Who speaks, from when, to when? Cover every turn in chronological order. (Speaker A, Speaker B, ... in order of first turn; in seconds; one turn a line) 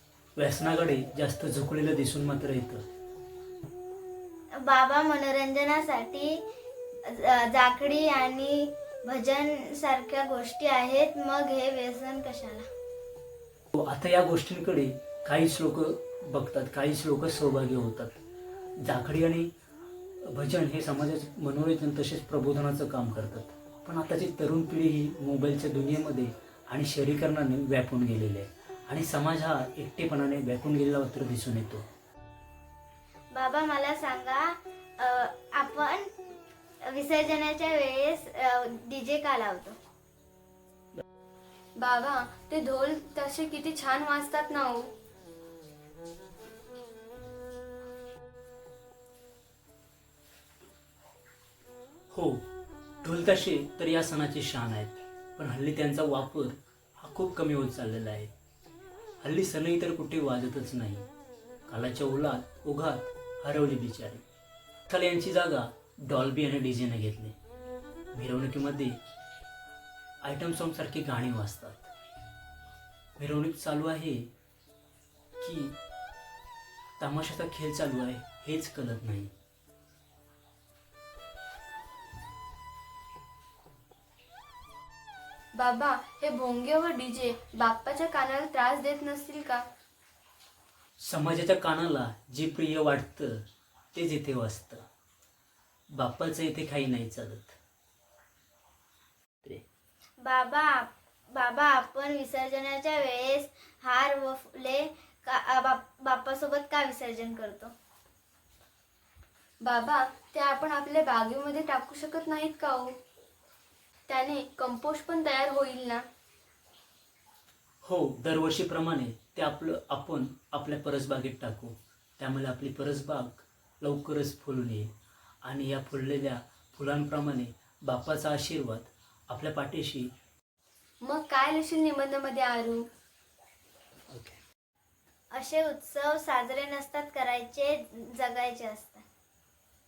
Speaker A: 0.4-2.8
Speaker B: 4.6-6.4
Speaker B: 7.1-12.7
Speaker A: 13.7-18.2
Speaker A: 18.8-19.5
Speaker A: 20.3-31.8
Speaker B: 33.3-36.1
Speaker B: 36.9-39.8
Speaker C: 41.8-44.9
Speaker A: 52.1-52.4
Speaker A: 53.0-58.3
Speaker A: 59.2-61.1
Speaker A: 61.7-64.2
Speaker A: 64.9-67.4
Speaker A: 68.1-69.0
Speaker A: 70.2-71.9
Speaker A: 73.2-74.3
Speaker A: 75.4-75.8
Speaker A: 77.0-79.3
Speaker C: 85.5-89.7
Speaker A: 91.0-94.8
Speaker A: 95.9-97.6
Speaker B: 100.2-107.7
Speaker C: 109.6-113.0
Speaker C: 114.1-116.0
Speaker A: 117.8-124.9
Speaker A: 125.5-130.1
Speaker C: 131.0-132.9
Speaker A: 134.1-134.4
Speaker B: 135.3-139.0